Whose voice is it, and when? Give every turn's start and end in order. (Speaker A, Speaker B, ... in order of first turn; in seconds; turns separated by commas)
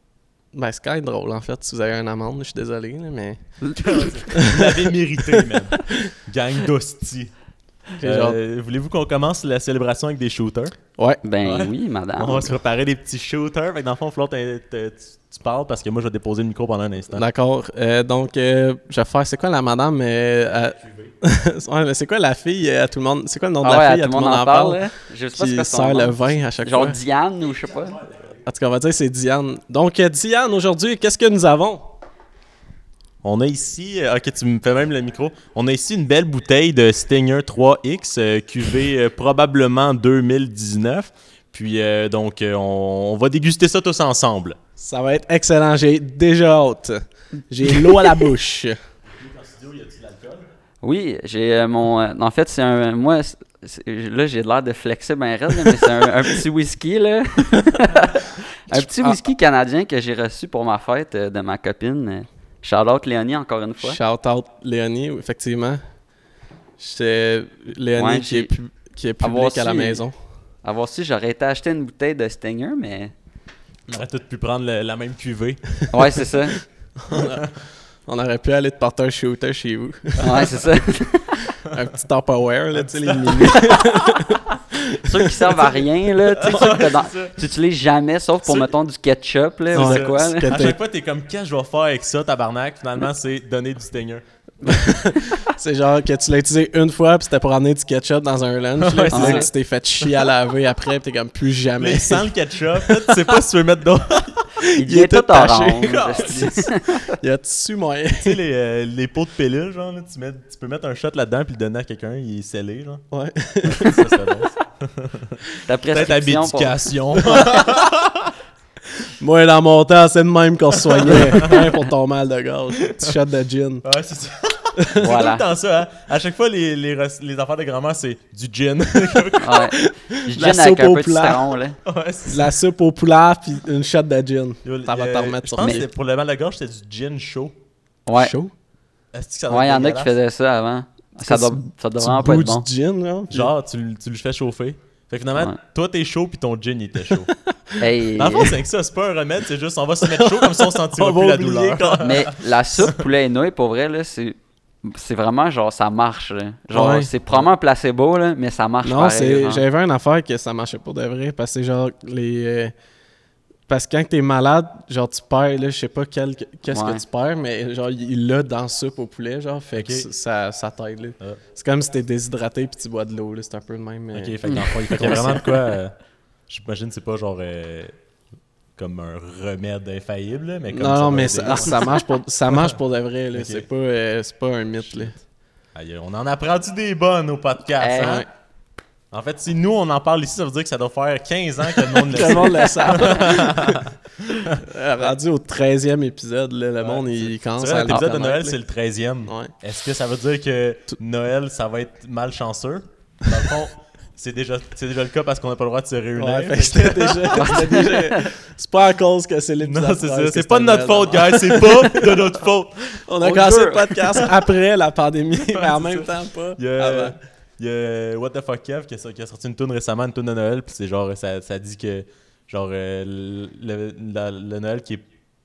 Speaker A: 0.5-3.4, Speaker B: 3.6-4.1, Speaker C: 3.7-7.3, Speaker A: 4.3-6.0, Speaker C: 7.9-10.8, Speaker A: 8.0-8.4, Speaker B: 11.2-12.6, Speaker C: 11.4-17.2, Speaker A: 17.1-27.0, Speaker C: 20.8-21.1, Speaker B: 23.6-28.0, Speaker C: 27.7-28.4, Speaker A: 28.4-31.9, Speaker C: 33.2-44.6, Speaker A: 44.8-48.8, Speaker C: 49.1-50.5, Speaker B: 50.8-64.0, Speaker A: 58.7-59.1, Speaker A: 63.8-65.8, Speaker A: 66.8-70.1, Speaker B: 68.0-68.5, Speaker B: 69.2-70.0, Speaker B: 70.6-73.1, Speaker C: 73.9-75.8, Speaker B: 75.9-76.6, Speaker A: 77.0-77.5, Speaker C: 77.1-77.5, Speaker A: 78.0-80.6, Speaker B: 80.2-81.4, Speaker A: 81.5-85.5, Speaker C: 82.8-84.3, Speaker B: 85.0-90.5, Speaker C: 86.3-87.4, Speaker C: 88.4-88.7, Speaker C: 89.7-94.9, Speaker A: 89.7-90.8, Speaker A: 94.6-103.4, Speaker C: 98.8-99.5, Speaker B: 99.1-99.5, Speaker C: 101.8-104.5, Speaker A: 104.6-108.4, Speaker B: 104.7-107.1, Speaker C: 108.2-113.0, Speaker A: 113.1-114.3, Speaker C: 113.6-115.4, Speaker B: 115.7-117.4, Speaker C: 115.9-118.3, Speaker A: 117.4-117.7, Speaker A: 119.2-123.8, Speaker C: 120.9-121.6, Speaker C: 123.8-129.7, Speaker A: 124.8-125.1, Speaker B: 125.0-125.5, Speaker B: 129.4-131.8, Speaker A: 129.5-131.5, Speaker C: 131.8-132.5, Speaker A: 132.3-135.8, Speaker C: 134.6-137.5, Speaker B: 138.1-138.3, Speaker A: 138.1-138.5, Speaker C: 139.1-140.1, Speaker B: 139.5-142.7, Speaker A: 141.2-143.5, Speaker C: 143.3-147.3, Speaker A: 147.5-147.8, Speaker B: 147.8-148.6, Speaker C: 148.2-152.9, Speaker A: 150.0-152.2, Speaker B: 152.0-159.6, Speaker A: 156.7-157.1, Speaker A: 158.8-162.7, Speaker A: 163.7-175.5, Speaker B: 166.7-167.0, Speaker C: 169.8-170.1, Speaker C: 174.1-175.9, Speaker B: 174.4-175.6, Speaker C: 176.5-177.9, Speaker C: 178.8-182.0, Speaker A: 180.7-185.1, Speaker B: 181.4-182.0, Speaker C: 183.3-183.7, Speaker C: 184.8-185.2, Speaker C: 185.7-188.2, Speaker B: 187.8-188.2, Speaker A: 188.0-188.3, Speaker C: 189.1-194.6, Speaker A: 191.9-193.8, Speaker A: 194.6-198.6, Speaker C: 196.8-207.7, Speaker A: 199.2-199.5, Speaker A: 206.2-212.2, Speaker B: 207.3-208.3, Speaker C: 209.6-213.0, Speaker A: 212.9-217.1, Speaker B: 213.2-214.3, Speaker C: 215.3-225.1